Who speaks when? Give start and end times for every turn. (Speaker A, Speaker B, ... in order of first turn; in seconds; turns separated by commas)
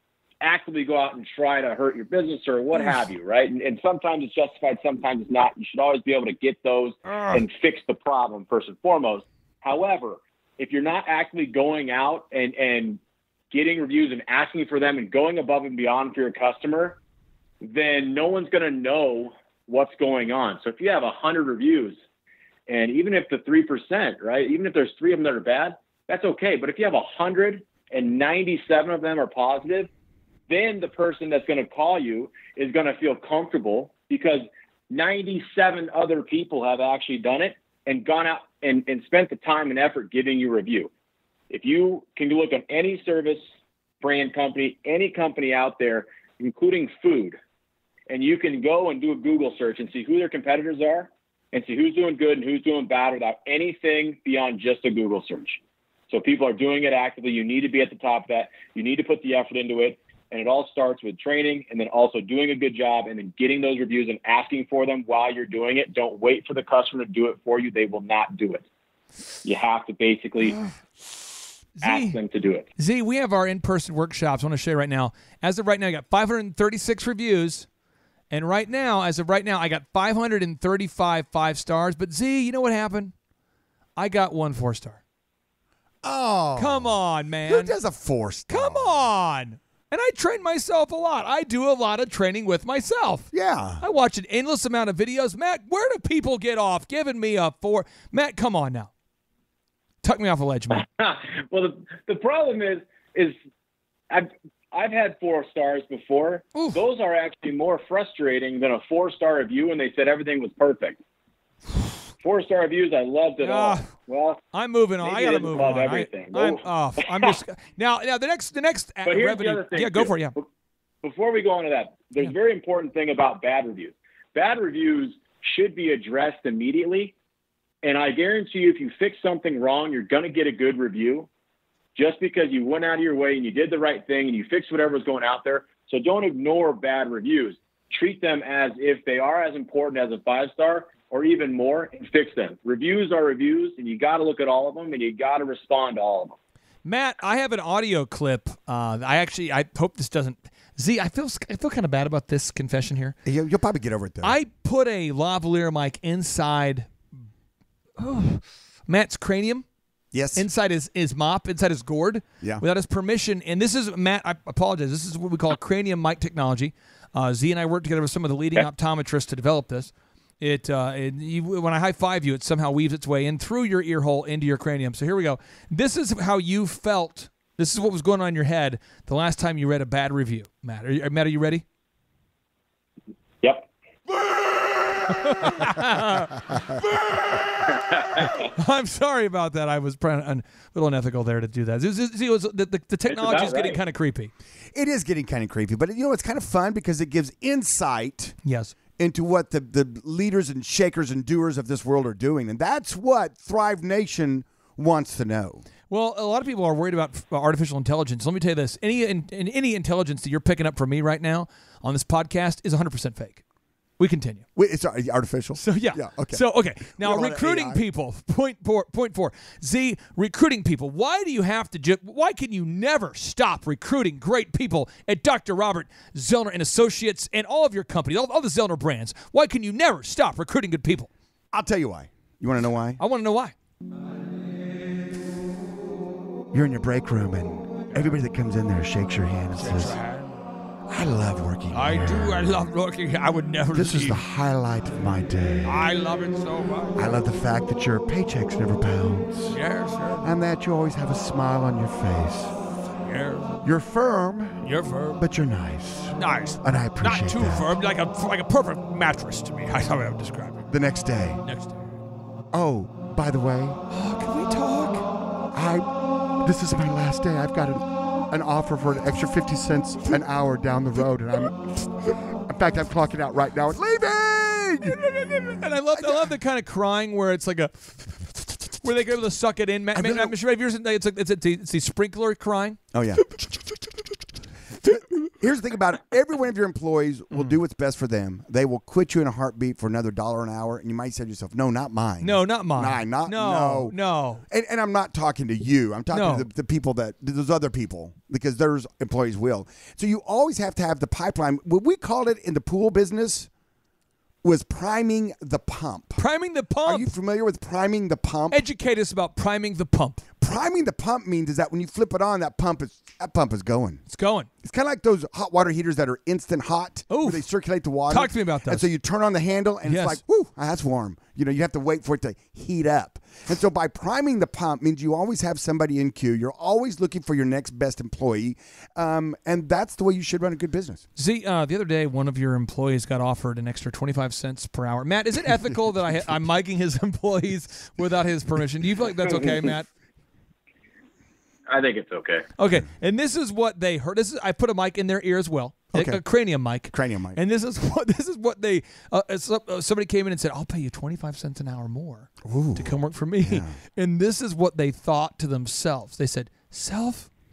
Speaker A: 0.4-13.0, Speaker B: 7.1-7.4, Speaker A: 13.5-17.0, Speaker A: 17.6-22.0, Speaker A: 22.7-29.9, Speaker A: 30.5-40.9, Speaker A: 41.5-43.4, Speaker A: 44.0-47.4, Speaker A: 48.1-55.6, Speaker A: 56.1-68.7, Speaker A: 69.4-70.6, Speaker B: 71.8-72.2, Speaker A: 71.8-72.7, Speaker B: 72.8-77.7, Speaker B: 78.3-83.1, Speaker B: 84.0-85.0, Speaker C: 86.0-89.1, Speaker B: 86.6-87.7, Speaker B: 88.5-93.3, Speaker C: 93.3-93.8, Speaker B: 93.8-98.9, Speaker B: 100.0-100.8, Speaker A: 100.8-103.3, Speaker A: 104.1-111.0, Speaker B: 106.5-106.8, Speaker A: 112.2-114.4, Speaker B: 113.4-113.9, Speaker B: 114.5-120.3, Speaker A: 115.0-117.3, Speaker A: 119.1-120.4, Speaker A: 121.0-127.1, Speaker A: 127.8-131.3, Speaker A: 131.9-146.4, Speaker B: 146.8-153.2, Speaker C: 153.2-154.4, Speaker B: 154.2-157.1, Speaker B: 158.0-159.7, Speaker C: 160.1-160.4, Speaker B: 160.3-181.6, Speaker A: 183.4-183.7, Speaker B: 184.9-194.3, Speaker A: 193.1-193.8, Speaker C: 194.7-198.4, Speaker B: 198.4-198.7, Speaker C: 199.0-205.7, Speaker B: 205.9-213.4, Speaker B: 214.0-214.4, Speaker C: 214.6-217.8, Speaker B: 215.6-231.1, Speaker C: 231.5-233.0, Speaker B: 233.0-233.5, Speaker C: 236.5-240.0, Speaker B: 239.5-240.4, Speaker C: 240.9-242.7, Speaker B: 241.7-244.2, Speaker C: 243.7-245.8, Speaker B: 245.6-247.0, Speaker C: 246.9-249.6, Speaker B: 249.5-250.3, Speaker C: 250.2-252.6, Speaker B: 253.0-253.6, Speaker C: 253.6-257.7, Speaker B: 254.6-255.2, Speaker B: 256.2-260.7, Speaker C: 260.7-261.4, Speaker B: 261.4-261.9, Speaker C: 262.5-263.8, Speaker B: 263.9-265.1, Speaker C: 265.5-275.0, Speaker B: 275.0-282.8, Speaker C: 275.9-276.4, Speaker C: 279.9-280.3, Speaker C: 282.9-283.2, Speaker C: 284.9-293.9, Speaker B: 292.2-294.4, Speaker C: 294.5-303.5, Speaker B: 296.1-296.5, Speaker C: 304.4-306.2, Speaker B: 306.2-307.1, Speaker C: 306.9-308.6, Speaker B: 308.5-310.2, Speaker C: 310.4-314.0, Speaker B: 314.1-314.5, Speaker C: 314.6-331.1, Speaker B: 317.1-317.4, Speaker B: 318.1-318.9, Speaker B: 319.9-320.2, Speaker B: 331.2-339.9, Speaker A: 341.7-342.5, Speaker B: 342.6-357.3, Speaker C: 345.9-346.2, Speaker C: 346.9-347.4, Speaker C: 352.4-353.8